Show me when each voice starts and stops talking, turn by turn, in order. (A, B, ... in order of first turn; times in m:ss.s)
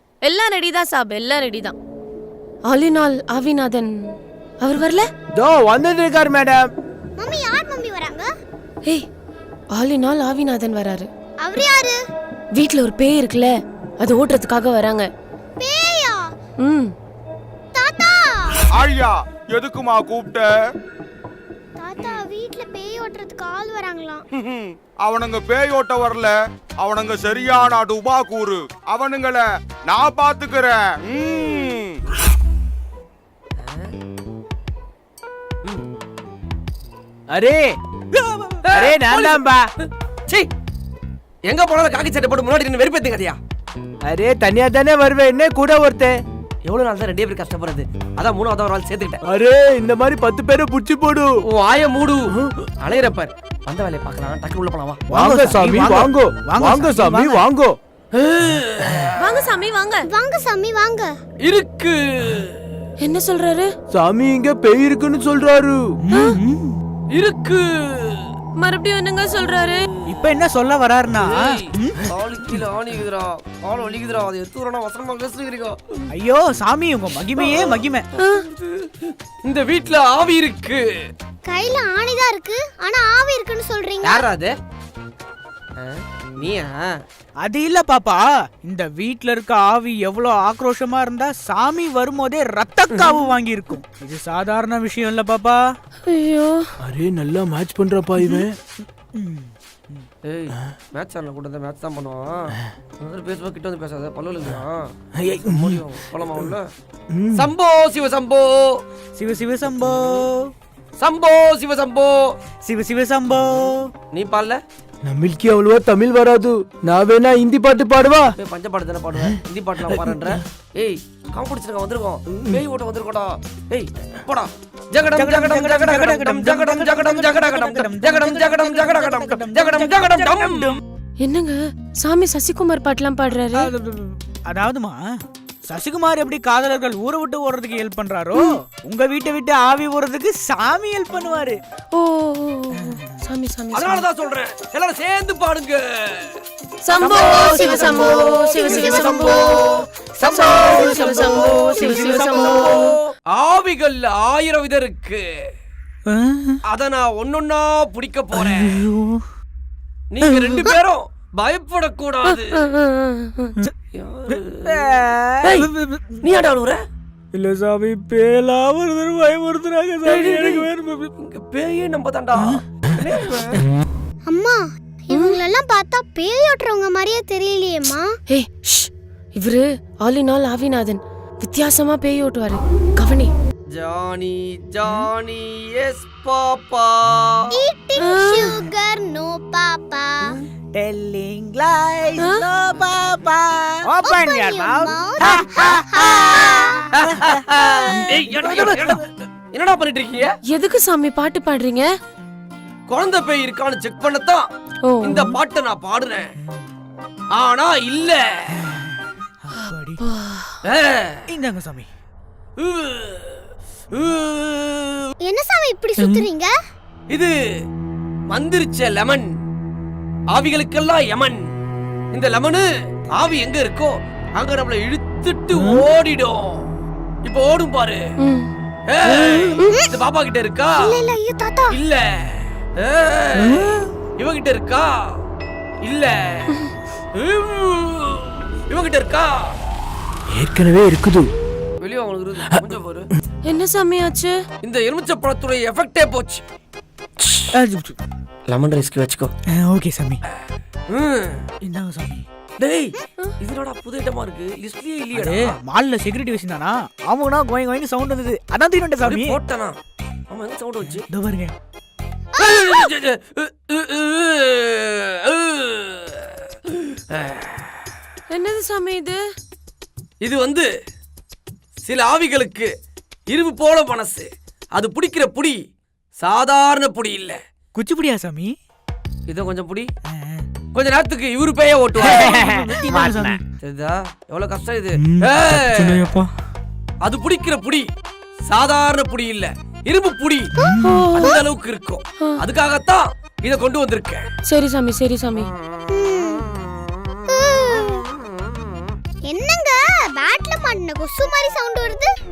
0:00.2-0:01.7 A
0:02.7-0:04.0 A
0:04.6-0:05.0 A
0:05.3-0:06.6 B
0:07.2-0:08.3 C
0:09.7-0:11.1 A
0:11.4-0:12.0 C
0:12.5-0:15.1 A
0:15.6-0:16.2 C
0:16.6-0:16.9 A
0:17.7-0:18.6 C
0:18.7-0:20.5 D
0:21.8-0:24.2 C
0:24.4-0:32.0 D
0:33.6-0:33.9 E
0:37.3-0:37.6 B
0:38.7-0:39.4 E
0:38.7-0:39.6 B
0:41.4-0:43.4 E
0:44.1-0:46.1 B
0:46.6-0:49.2 E
0:49.2-0:51.3 B
0:51.5-0:55.0 E
0:55.1-0:57.4 F
0:55.1-0:57.8 B
0:58.1-0:59.3 E
0:59.2-1:00.1 A
1:00.1-1:01.1 C
1:01.4-1:02.6 E
1:03.0-1:03.7 A
1:03.9-1:05.8 B
1:06.0-1:06.8 F
1:07.1-1:08.2 E
1:08.6-1:09.8 A
1:10.0-1:12.0 F
1:11.2-1:15.8 E
1:16.1-1:18.0 F
1:17.4-1:17.8 E
1:19.1-1:20.8 E
1:21.4-1:24.3 C
1:24.0-1:24.5 E
1:25.8-1:26.8 E
1:27.4-1:35.6 F
1:32.9-1:33.2 E
1:36.0-1:36.6 A
1:36.8-1:38.5 B
1:39.1-1:40.0 F
1:40.3-1:44.8 E
1:45.2-1:45.8 B
1:45.4-1:46.7 E
1:47.1-1:47.5 B
1:47.3-1:48.8 E
1:49.2-1:50.5 F
1:49.8-1:50.2 E
1:51.0-1:52.3 E
1:52.6-1:53.9 F
1:54.1-1:54.6 E
1:55.0-1:58.3 B
1:58.4-2:10.8 E
2:05.2-2:10.8 F
2:11.2-2:13.7 A
2:13.5-2:15.0 F
2:15.7-2:21.6 F
2:21.9-2:24.0 A
2:22.7-2:23.2 F
2:23.7-2:26.4 E
2:26.8-2:32.8 A
2:27.0-2:35.2 E
2:28.9-2:29.2 F
2:30.2-2:32.9 F
2:36.1-2:36.6 F
2:36.7-2:38.9 E
2:38.4-2:39.2 F
2:40.1-2:42.7 E
2:40.2-2:40.7 F
2:42.2-2:43.5 A
2:43.9-2:44.8 E
2:44.6-2:46.2 F
2:46.2-2:46.8 E
2:47.3-2:51.1 F
2:50.0-2:50.7 E
2:51.2-2:53.6 E
2:54.3-2:58.1 C
2:55.1-2:55.4 A
2:58.3-3:03.3 A
3:03.7-3:07.5 E
3:07.5-3:10.4 C
3:08.0-3:08.5 A
3:10.7-3:19.0 F
3:12.2-3:12.5 A
3:14.0-3:16.8 C
3:16.9-3:20.3 E
3:17.5-3:18.0 C
3:20.5-3:21.9 A
3:22.9-3:24.5 E
3:24.8-3:25.1 A
3:25.0-3:26.3 E
3:27.3-3:28.5 E
3:28.6-3:30.0 F
3:30.0-3:30.6 A
3:30.7-3:31.2 E
3:31.3-3:31.9 F
3:32.6-3:35.1 E
3:35.2-3:36.5 C
3:38.3-3:39.3 E
3:40.3-3:41.4 E
3:42.1-3:46.7 E
3:45.5-3:45.8 F
3:47.2-3:48.0 E
3:48.2-3:48.5 A
3:48.9-3:51.0 E
3:49.2-3:49.5 F
3:50.8-3:51.8 C
3:51.7-3:55.2 E
3:53.4-3:53.9 F
3:55.8-3:56.5 E
3:57.2-3:59.6 E
4:00.3-4:01.3 B
4:01.8-4:03.1 E
4:03.4-4:04.4 A
4:04.6-4:06.4 E
4:07.5-4:08.0 F
4:08.5-4:09.3 E
4:09.5-4:10.2 F
4:10.9-4:11.4 E
4:11.6-4:12.2 F
4:12.6-4:15.6 E
4:15.1-4:19.4 F
4:19.0-4:19.8 E
4:20.3-4:21.1 E
4:21.1-4:21.5 F
4:22.4-4:22.9 C
4:22.4-4:26.4 E
4:27.0-4:27.6 E
4:28.3-4:29.2 A
4:30.2-4:30.7 E
4:31.8-4:32.7 E
4:33.3-4:35.6 E
4:36.2-4:37.4 E
4:37.7-4:38.6 F
4:39.3-4:39.9 E
4:40.1-4:40.4 F
4:40.7-4:42.5 E
4:42.0-4:43.4 F
4:43.6-4:46.1 E
4:45.0-4:46.2 F
4:47.0-4:47.9 E
4:48.5-4:50.5 E
4:50.6-4:51.4 C
4:50.6-4:51.0 F
4:50.8-4:51.1 A
4:51.1-4:54.3 E
4:54.4-4:55.5 A
4:55.9-4:56.4 C
4:57.3-4:58.1 C
4:59.3-5:02.1 C